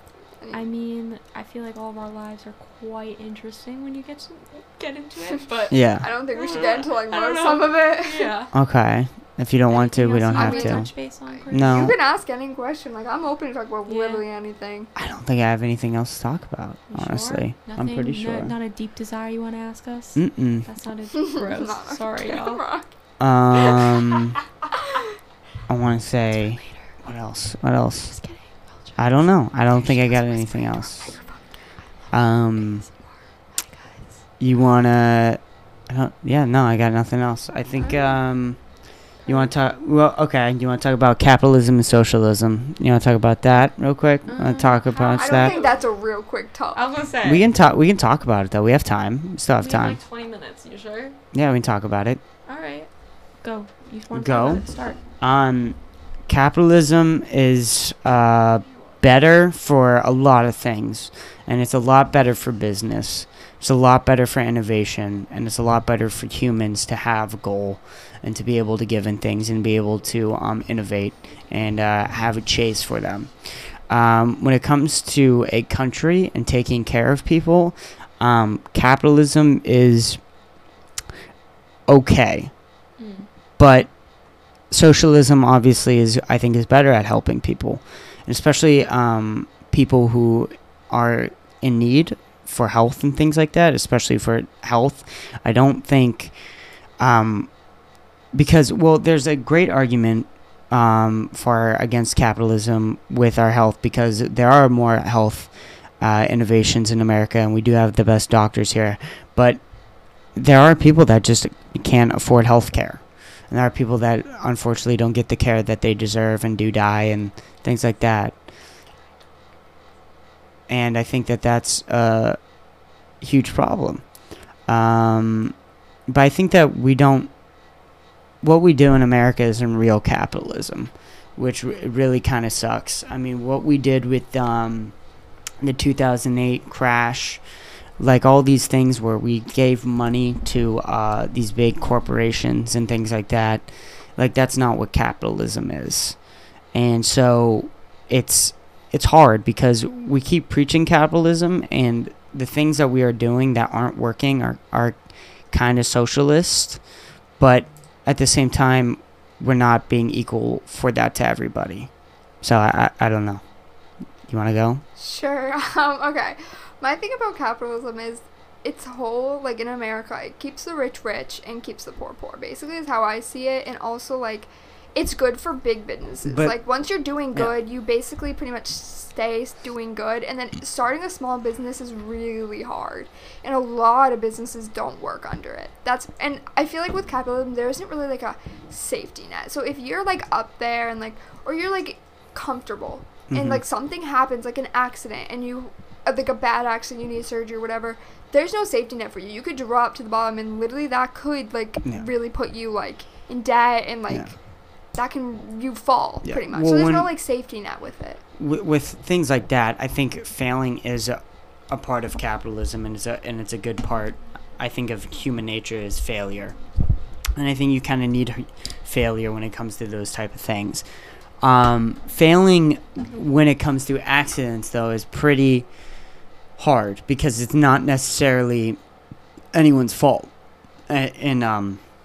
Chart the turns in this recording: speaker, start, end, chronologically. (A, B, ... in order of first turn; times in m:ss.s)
0:00.5-0:08.5 A
0:05.7-0:06.1 B
0:06.0-0:08.3 C
0:08.5-0:10.9 B
0:09.7-0:11.9 A
0:10.3-0:14.9 C
0:11.5-0:11.9 B
0:13.9-0:14.2 A
0:15.0-0:18.5 B
0:16.9-0:22.6 A
0:20.2-0:20.7 B
0:21.2-0:22.9 C
0:23.2-0:24.4 B
0:25.7-0:28.2 B
0:28.1-0:29.1 A
0:29.0-0:31.2 B
0:29.7-0:31.0 A
0:32.1-0:32.8 B
0:33.6-0:34.0 A
0:34.4-0:38.6 B
0:37.8-0:38.2 A
0:39.2-0:39.5 A
0:39.3-0:45.6 B
0:44.3-0:45.8 A
0:45.2-0:46.8 C
0:46.7-0:47.5 A
0:47.2-0:50.0 B
0:49.6-0:51.2 A
0:51.3-0:52.2 B
0:52.4-0:52.9 A
0:53.4-0:55.0 A
0:54.1-0:54.6 B
0:55.2-0:55.8 B
0:56.3-1:20.2 B
1:21.9-1:22.5 B
1:23.0-1:23.3 A
1:23.6-1:23.9 B
1:24.7-1:36.3 B
1:37.0-1:37.5 B
1:38.3-1:49.6 B
1:50.3-1:58.3 B
2:00.7-2:02.4 B
2:03.2-2:04.0 B
2:04.7-2:05.5 B
2:06.1-2:07.3 B
2:08.4-2:14.9 B
2:15.6-2:17.4 B
2:18.0-2:26.2 B
2:26.7-2:35.0 B
2:35.5-2:36.8 B
2:37.4-2:41.9 B
2:42.4-2:43.4 B
2:44.3-2:44.8 B
2:45.0-3:24.4 C
2:56.2-2:56.6 B
3:13.3-3:13.6 B
3:24.9-3:28.2 C
3:26.2-3:27.1 B
3:28.4-3:36.6 B
3:37.4-3:40.8 B
3:41.4-3:45.7 B
3:46.6-3:48.8 B
3:49.5-3:50.3 B
3:50.9-3:51.8 B